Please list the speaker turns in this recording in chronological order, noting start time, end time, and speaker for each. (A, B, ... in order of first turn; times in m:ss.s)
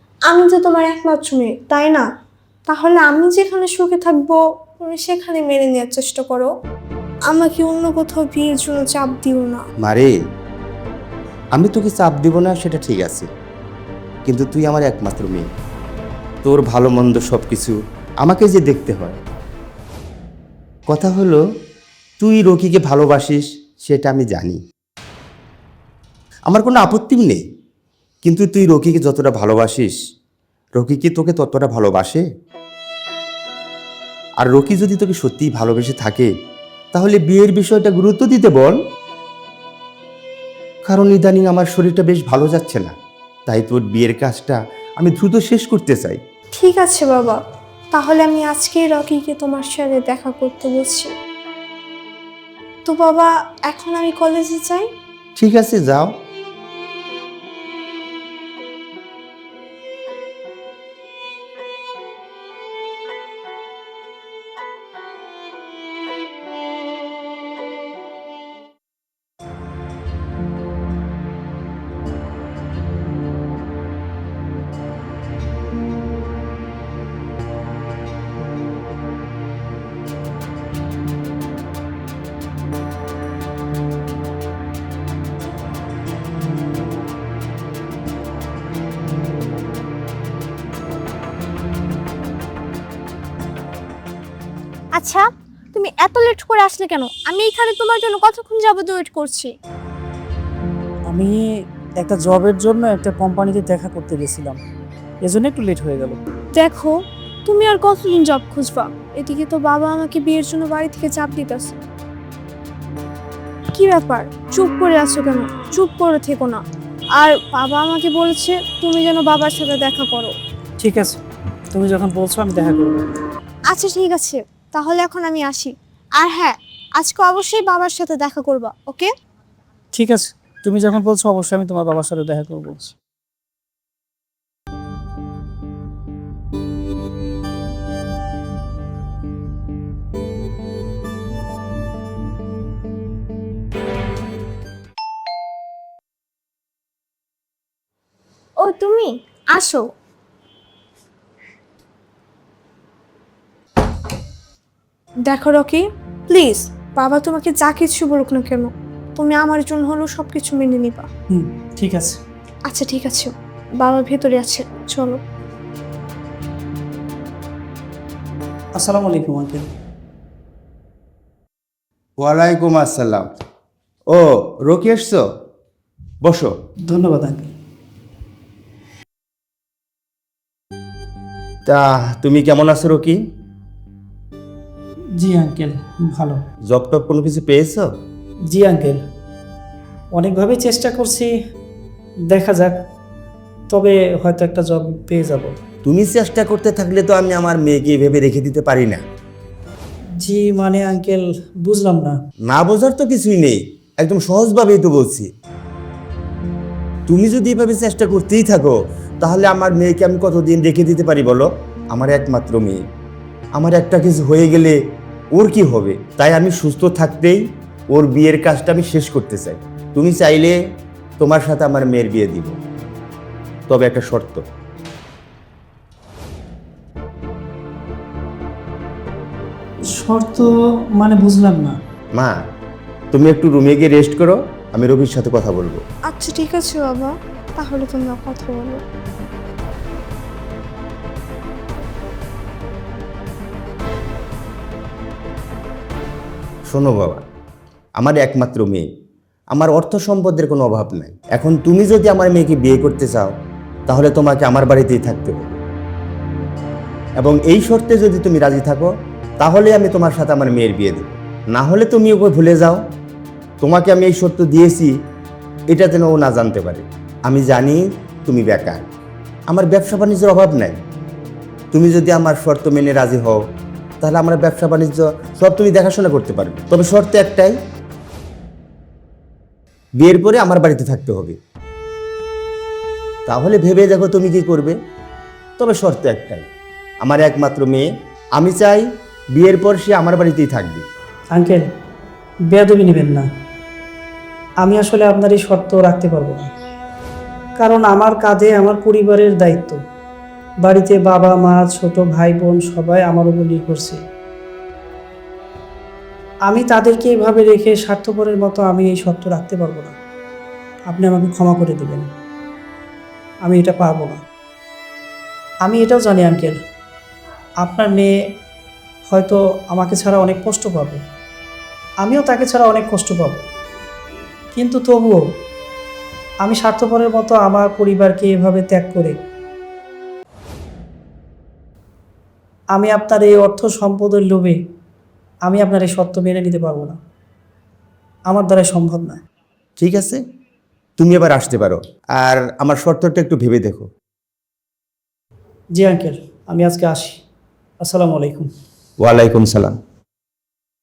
0:00.3-0:02.0 A
0:02.7-0:06.5 A
0:07.3-0:09.6 A
0:09.8-0:10.1 B
0:11.5-0:13.3 B
0:14.2-0:15.5 B
0:16.4-0:19.2 B
0:20.9-0:21.4 B
0:22.2-0:24.6 B
0:26.5-0:27.4 B
0:28.2-0:30.0 B
0:30.8-0:32.2 B
0:34.4-0:36.3 B
0:36.9-0:38.8 B
0:40.8-0:42.9 B
0:43.5-0:46.2 B
0:46.6-0:47.4 A
0:47.9-0:51.1 A
0:52.8-0:54.9 A
0:55.4-0:56.1 B
1:35.0-1:39.5 A
1:41.1-1:41.4 C
1:42.0-1:44.6 C
1:45.2-1:46.2 C
1:46.5-1:51.8 A
1:53.7-1:56.6 A
1:57.2-2:00.3 A
2:00.8-2:01.2 C
2:01.7-2:03.0 C
2:03.7-2:09.1 A
2:09.9-2:12.9 C
2:28.6-2:29.9 A
2:35.2-2:41.1 A
2:41.3-2:42.2 C
2:42.6-2:45.2 A
2:48.8-2:49.7 C
2:52.2-2:53.3 B
2:54.1-2:55.2 B
2:56.2-2:56.5 B
2:56.9-2:57.5 C
3:01.7-3:03.2 B
3:05.2-3:06.4 C
3:06.7-3:07.9 B
3:08.5-3:09.0 C
3:10.1-3:11.3 C
3:12.3-3:12.8 C
3:13.7-3:15.5 C
3:15.8-3:19.0 B
3:20.2-3:22.2 C
3:22.5-3:25.3 B
3:27.1-3:32.8 B
3:33.5-3:34.8 B
3:35.3-3:40.6 B
3:41.2-3:42.6 B
3:43.7-3:44.4 B
3:49.9-3:51.8 C
3:53.1-3:55.8 B
3:56.1-3:58.8 A
4:06.7-4:07.2 B
4:08.0-4:08.9 B
4:09.5-4:13.3 B
4:13.9-4:15.6 B
4:17.2-4:18.9 B
4:19.4-4:22.8 B
4:23.6-4:24.9 B
4:25.7-4:28.9 B
4:29.5-4:30.8 B
4:31.7-4:33.4 B
4:34.0-4:37.5 B
4:40.0-4:41.4 B
4:43.2-4:44.7 B
4:45.6-4:46.4 B
4:47.0-4:50.8 B
4:51.3-4:51.6 C
4:52.5-4:53.3 C
4:54.6-4:56.5 C
4:57.6-4:59.8 C
5:00.6-5:04.0 C
5:06.5-5:09.9 C
5:10.9-5:12.1 C
5:13.4-5:14.2 C
5:15.6-5:16.6 C
5:17.6-5:18.1 C
5:19.1-5:21.0 C
5:22.0-5:23.4 C
5:24.5-5:25.2 C
5:26.4-5:29.1 C
5:32.7-5:34.6 C
5:35.4-5:37.0 C
5:38.3-5:39.2 C
5:39.8-5:40.2 B
5:41.0-5:43.9 B
5:45.7-5:47.2 C
5:47.8-5:48.5 C
5:49.0-5:49.8 B